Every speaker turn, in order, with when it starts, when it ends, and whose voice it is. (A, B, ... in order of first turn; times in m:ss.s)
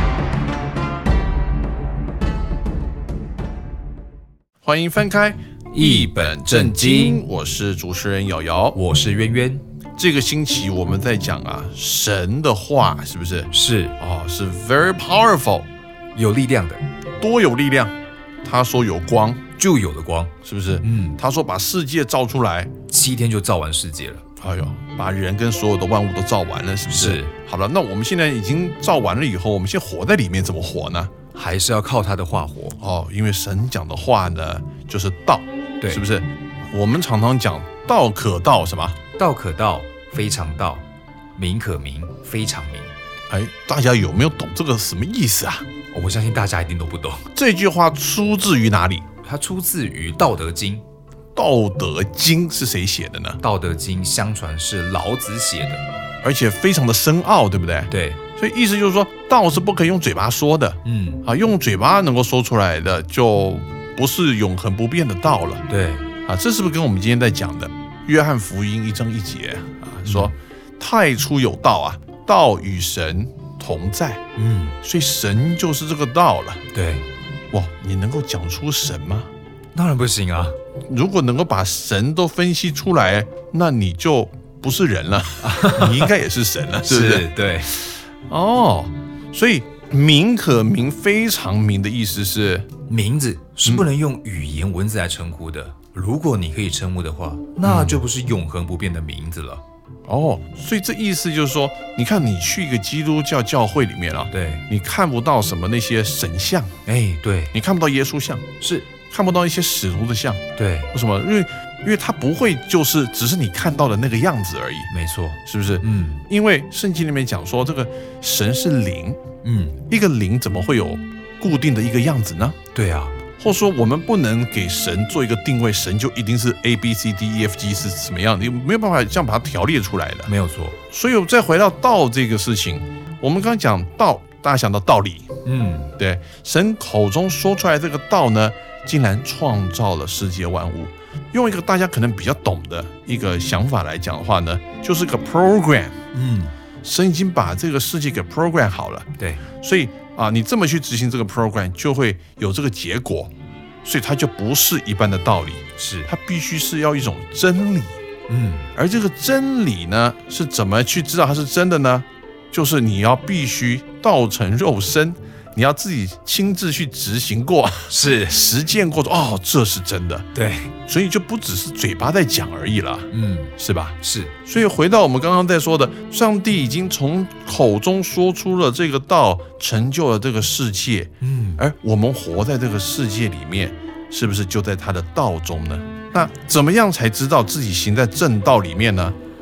0:04.6-0:08.8 A
0:05.7-0:07.2 B
0:08.8-0:09.6 B
0:10.0-0:15.7 A
0:13.5-0:13.9 B
0:16.2-0:16.8 B
0:17.2-0:19.4 A
0:19.6-0:21.2 B
0:20.4-0:22.7 A
0:22.9-0:24.2 B
0:24.4-0:31.1 A
0:26.9-0:27.3 B
0:31.4-0:32.8 B
0:32.8-0:39.0 A
0:39.2-0:40.8 B
0:41.4-0:42.9 B
0:43.3-0:45.6 A
0:45.9-0:47.3 B
0:47.4-0:49.0 A
0:49.2-0:50.8 B
0:51.4-0:53.4 A
0:53.4-0:55.8 B
0:56.2-1:05.6 A
0:57.9-0:58.2 B
1:00.8-1:01.2 B
1:05.7-1:06.1 B
1:06.3-1:14.2 A
1:10.0-1:10.4 B
1:14.4-1:14.8 B
1:14.8-1:16.6 A
1:16.7-1:17.0 B
1:17.5-1:19.3 A
1:19.7-1:20.6 B
1:20.9-1:27.3 A
1:25.4-1:26.1 B
1:26.8-1:27.8 B
1:28.3-1:32.7 A
1:32.9-1:39.6 B
1:37.6-1:38.0 A
1:40.1-1:46.7 A
1:44.3-1:44.6 B
1:46.9-1:47.5 B
1:47.5-1:48.4 A
1:48.6-1:48.9 B
1:49.1-1:54.9 A
1:50.6-1:50.9 B
1:54.9-1:56.2 B
1:55.5-1:59.2 A
1:59.4-1:59.8 B
1:59.9-2:02.6 A
2:02.7-2:03.2 B
2:03.4-2:10.3 A
2:10.3-2:10.8 B
2:10.9-2:15.3 A
2:15.4-2:15.9 B
2:16.0-2:26.0 A
2:26.1-2:26.5 B
2:26.8-2:29.1 A
2:29.2-2:29.4 B
2:29.6-2:33.3 A
2:33.8-2:38.0 A
2:35.8-2:36.1 B
2:38.3-2:38.7 B
2:38.8-2:50.3 A
2:47.9-2:48.4 B
2:50.4-2:50.7 B
2:50.9-3:09.2 A
2:53.1-2:54.3 B
3:01.2-3:01.6 B